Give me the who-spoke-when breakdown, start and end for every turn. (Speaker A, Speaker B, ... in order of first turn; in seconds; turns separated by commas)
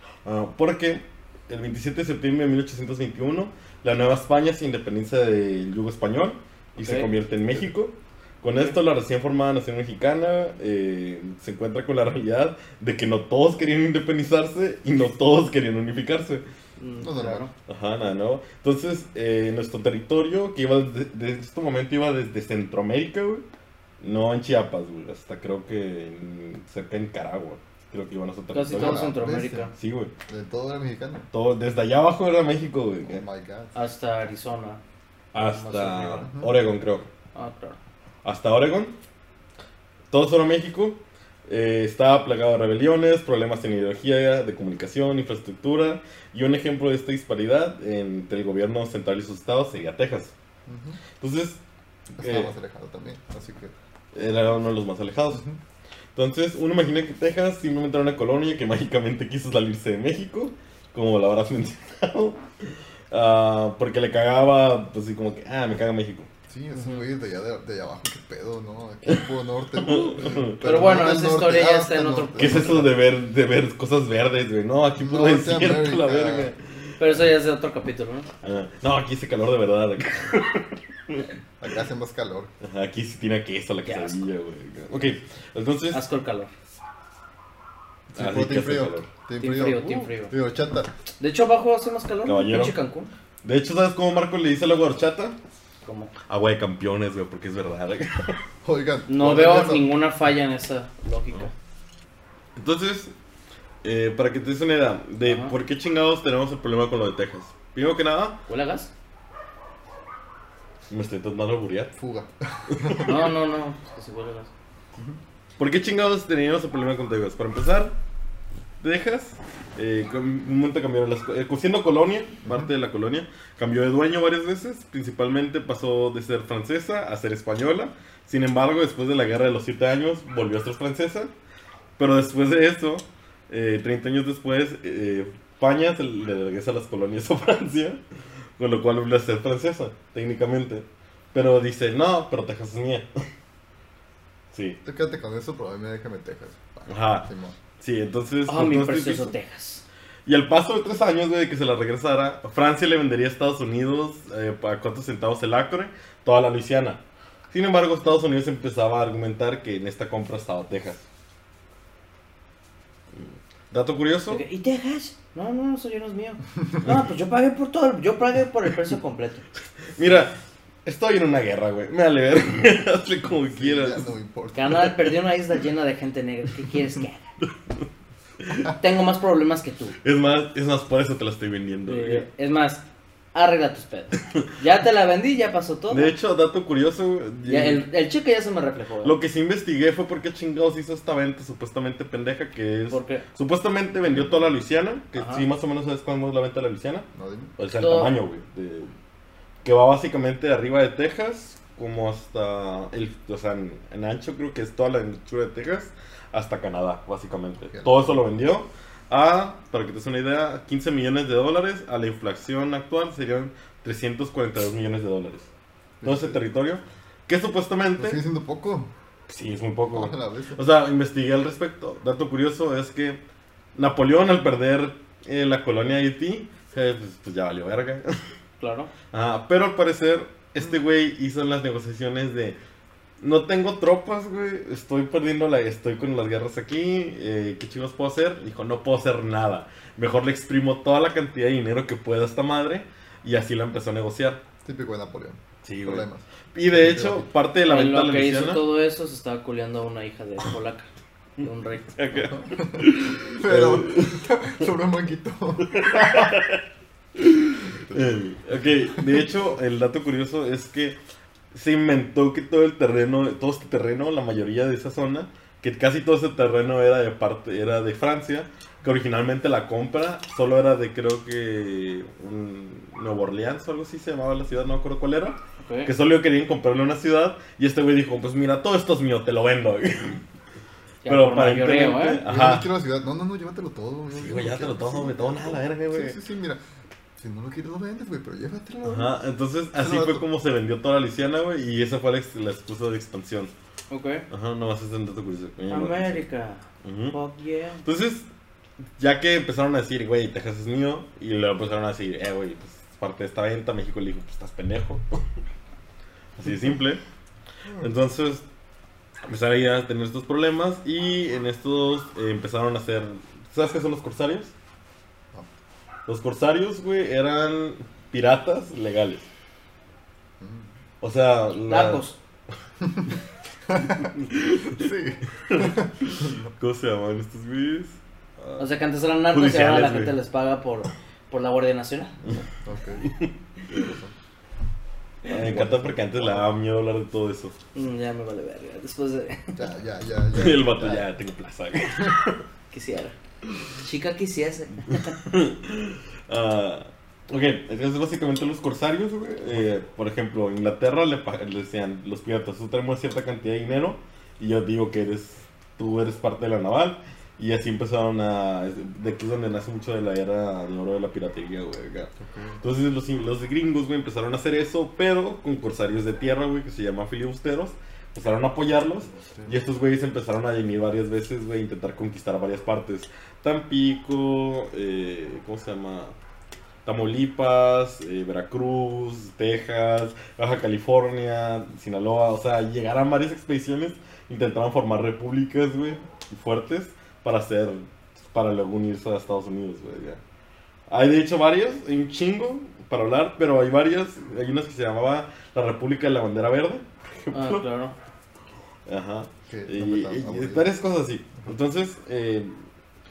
Speaker A: 0.2-16.4, Speaker B: 6.8-7.1, Speaker B: 8.5-8.8, Speaker B: 16.8-17.5, Speaker C: 17.0-17.5, Speaker A: 17.7-23.4, Speaker A: 24.0-29.1, Speaker B: 28.5-29.7, Speaker C: 28.7-29.7, Speaker A: 29.7-30.1, Speaker C: 30.3-31.3, Speaker A: 31.3-33.2, Speaker C: 33.0-33.7, Speaker B: 33.7-34.8, Speaker A: 35.3-37.1, Speaker B: 35.4-36.3, Speaker C: 36.1-36.6, Speaker B: 37.4-37.8, Speaker A: 38.2-39.0, Speaker A: 40.1-50.3, Speaker C: 50.7-51.0, Speaker A: 51.2-51.6, Speaker A: 52.2-52.5, Speaker C: 52.2-53.7, Speaker A: 54.1-55.4, Speaker C: 55.3-55.6, Speaker A: 56.1-66.3, Speaker C: 66.5-73.0, Speaker B: 66.7-67.0, Speaker A: 69.1-70.8, Speaker B: 70.6-72.8, Speaker A: 72.4-77.2, Speaker C: 75.0-76.5, Speaker B: 77.0-78.3, Speaker A: 78.4-81.3, Speaker C: 81.6-82.5, Speaker A: 82.6-86.0, Speaker B: 83.8-84.3, Speaker B: 85.9-86.5, Speaker C: 88.1-90.9, Speaker A: 88.2-89.1, Speaker B: 89.4-90.3, Speaker B: 91.2-93.1, Speaker A: 92.2-92.8, Speaker A: 93.4-95.4, Speaker B: 95.8-96.1, Speaker A: 96.3-98.4, Speaker C: 98.6-99.9, Speaker B: 99.1-101.5, Speaker A: 102.6-103.1, Speaker A: 103.8-108.4, Speaker B: 105.2-105.5, Speaker B: 108.5-108.9, Speaker A: 110.9-111.9, Speaker C: 112.0-113.2, Speaker A: 112.7-113.1, Speaker B: 113.0-114.5, Speaker A: 115.6-117.9, Speaker A: 118.8-131.3, Speaker C: 122.5-122.7, Speaker A: 132.0-138.0, Speaker A: 138.6-143.1, Speaker A: 144.5-144.8, Speaker C: 144.8-147.6, Speaker A: 146.9-147.3, Speaker A: 147.8-149.3, Speaker B: 148.5-149.8, Speaker A: 150.3-161.0, Speaker A: 163.2-164.4, Speaker B: 164.3-169.4, Speaker A: 170.0-174.1, Speaker C: 173.3-174.9, Speaker B: 174.6-177.3, Speaker A: 178.4-178.7, Speaker B: 178.6-180.0, Speaker A: 180.0-182.2, Speaker B: 181.9-182.8, Speaker B: 183.3-186.1, Speaker A: 185.9-187.8, Speaker B: 187.4-189.2, Speaker A: 189.0-197.1, Speaker B: 192.9-193.2, Speaker C: 194.1-194.5, Speaker B: 195.2-195.4, Speaker C: 197.1-197.5, Speaker A: 197.6-198.9, Speaker B: 197.8-198.2, Speaker A: 199.6-215.5, Speaker C: 207.7-208.2, Speaker C: 216.0-216.4, Speaker A: 216.0-218.2, Speaker C: 218.0-218.9, Speaker A: 219.3-223.2, Speaker C: 219.9-220.6, Speaker A: 223.8-228.2, Speaker B: 228.6-228.9, Speaker A: 229.1-232.6, Speaker A: 233.2-244.4, Speaker C: 244.6-247.3, Speaker A: 245.6-248.7, Speaker B: 247.7-251.9, Speaker A: 251.4-254.3, Speaker C: 252.2-256.4, Speaker A: 255.6-256.6, Speaker A: 257.2-261.0, Speaker C: 257.7-258.2, Speaker C: 258.9-259.2, Speaker A: 261.5-280.2, Speaker B: 275.6-275.9, Speaker B: 281.1-282.2, Speaker A: 281.1-282.7, Speaker C: 282.2-286.6, Speaker A: 284.1-286.2, Speaker C: 287.2-289.1, Speaker A: 288.8-293.5, Speaker C: 289.8-290.2, Speaker B: 293.9-294.3, Speaker A: 294.3-296.2, Speaker B: 295.7-297.8, Speaker A: 296.8-297.2, Speaker A: 297.8-298.3, Speaker A: 299.0-305.2, Speaker A: 306.4-307.0, Speaker A: 307.8-308.4, Speaker A: 309.2-314.5, Speaker A: 316.1-319.2, Speaker C: 320.4-320.7, Speaker A: 321.0-322.0, Speaker B: 321.7-322.2, Speaker C: 323.7-326.5, Speaker A: 324.0-324.9, Speaker A: 325.4-328.6, Speaker B: 328.6-332.2, Speaker A: 329.3-330.2, Speaker C: 332.5-333.1, Speaker A: 333.0-333.3, Speaker C: 333.7-334.1, Speaker A: 335.2-337.6, Speaker C: 335.4-336.5, Speaker B: 337.7-339.6, Speaker C: 339.6-341.1, Speaker A: 340.3-342.4, Speaker B: 342.7-343.1, Speaker B: 343.8-345.2, Speaker A: 344.9-376.1, Speaker C: 362.2-362.6, Speaker C: 369.1-369.6, Speaker A: 376.9-390.2, Speaker A: 390.9-397.6, Speaker B: 397.3-397.9, Speaker A: 398.9-402.6, Speaker C: 399.5-400.7